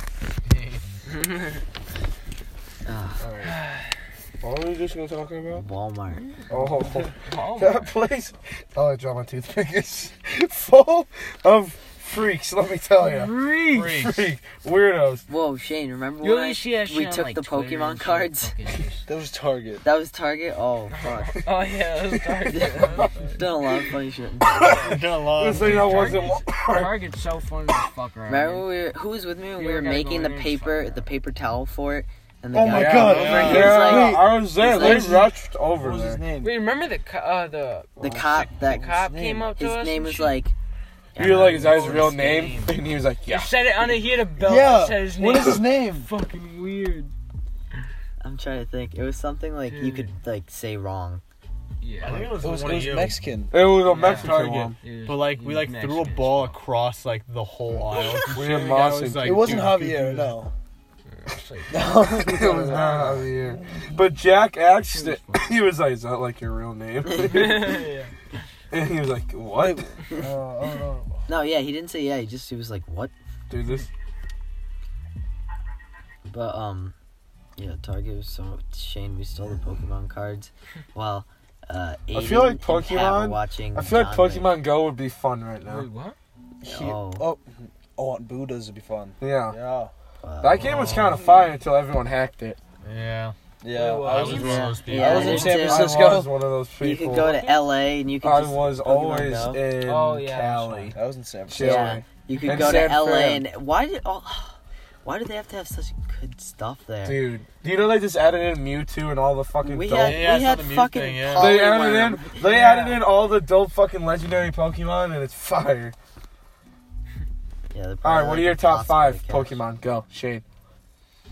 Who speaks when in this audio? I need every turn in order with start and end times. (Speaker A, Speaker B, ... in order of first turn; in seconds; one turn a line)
Speaker A: 0.5-0.9
Speaker B: 1.1-1.6
Speaker C: 2.9-3.2
Speaker D: 3.2-3.6
Speaker B: 3.5-3.8
Speaker D: 4.4-5.7
Speaker C: 5.5-6.3
Speaker B: 6.3-6.6
Speaker D: 6.5-15.2
Speaker B: 7.2-7.9
Speaker B: 13.0-14.0
Speaker A: 13.7-14.2
Speaker C: 15.3-18.5
Speaker B: 16.2-19.1
Speaker E: 19.1-19.8
Speaker C: 19.8-21.4
Speaker B: 21.0-23.4
Speaker C: 22.5-25.0
Speaker D: 24.8-27.0
Speaker A: 24.9-26.4
Speaker B: 25.6-28.7
Speaker C: 28.3-35.2
Speaker B: 29.5-31.1
Speaker E: 32.5-34.1
Speaker D: 32.6-36.2
Speaker A: 33.1-33.7
Speaker B: 33.7-34.0
Speaker E: 34.9-35.3
Speaker E: 35.8-36.7
Speaker B: 36.4-38.1
Speaker C: 38.0-39.0
Speaker E: 38.0-39.5
Speaker B: 38.7-40.4
Speaker C: 39.5-40.5
Speaker C: 41.1-42.1
Speaker D: 41.2-43.6
Speaker B: 41.2-47.1
Speaker E: 44.4-46.1
Speaker C: 48.2-51.2
Speaker B: 49.7-50.1
Speaker B: 51.8-52.4
Speaker A: 52.0-53.1
Speaker E: 52.4-53.5
Speaker D: 53.5-54.8
Speaker B: 53.9-56.5
Speaker A: 53.9-60.4
Speaker D: 58.3-59.7
Speaker E: 59.2-60.5
Speaker B: 61.1-63.1
Speaker E: 61.7-62.9
Speaker D: 62.2-67.8
Speaker A: 62.7-63.3
Speaker B: 64.8-65.5
Speaker C: 67.1-67.8
Speaker B: 67.5-68.1
Speaker D: 68.7-71.1
Speaker C: 71.3-73.1
Speaker D: 73.5-73.9
Speaker C: 76.3-76.9
Speaker C: 77.6-84.5
Speaker D: 82.1-85.9
Speaker B: 85.6-86.2
Speaker E: 86.6-89.9
Speaker C: 86.6-87.2
Speaker D: 89.2-89.5
Speaker C: 90.2-91.0
Speaker D: 90.4-92.6
Speaker A: 90.6-91.2
Speaker A: 92.8-93.3
Speaker E: 93.6-96.3
Speaker B: 93.7-95.7
Speaker A: 94.0-95.6
Speaker C: 94.2-95.9
Speaker D: 95.1-97.4
Speaker C: 96.8-99.6
Speaker B: 97.3-97.6
Speaker D: 98.2-101.0
Speaker B: 99.8-100.9
Speaker E: 100.9-101.9
Speaker D: 101.5-103.4
Speaker C: 101.6-107.2
Speaker B: 102.3-102.8
Speaker D: 107.0-110.3
Speaker C: 109.6-112.5
Speaker A: 110.0-111.5
Speaker D: 111.3-115.9
Speaker B: 112.4-113.0
Speaker C: 117.7-119.6
Speaker D: 118.0-120.4